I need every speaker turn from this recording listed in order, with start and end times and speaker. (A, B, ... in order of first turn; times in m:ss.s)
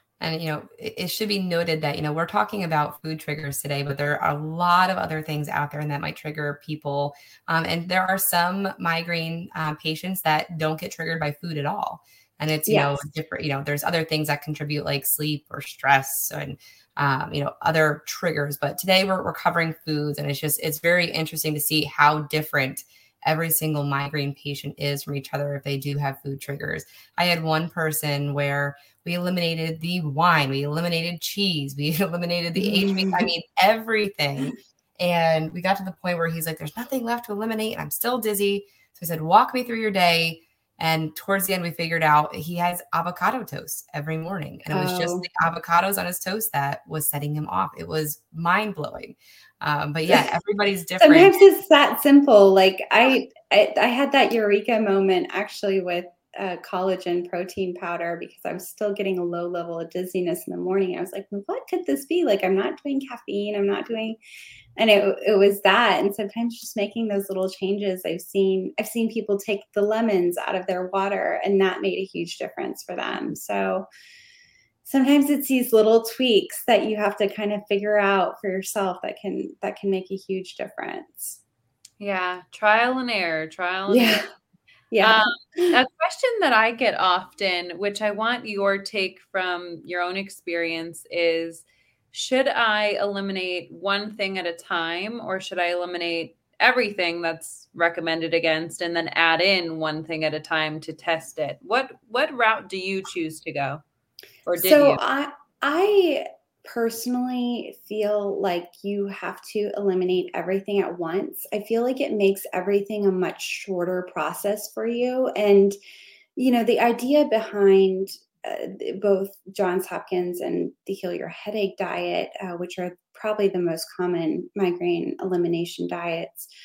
0:00.2-0:51.4 A
0:12.7-0:13.0 B
0:32.6-0:33.3 B
0:44.7-0:45.2 B
0:51.0-1:04.2 B
1:04.8-1:13.9 B
1:14.8-1:21.4 B
1:22.0-1:24.2 C
1:23.9-1:24.2 B
1:24.9-1:25.7 B
1:25.0-1:43.8 C
1:44.5-1:45.0 C
1:44.6-1:55.8 B
1:56.4-2:06.5 B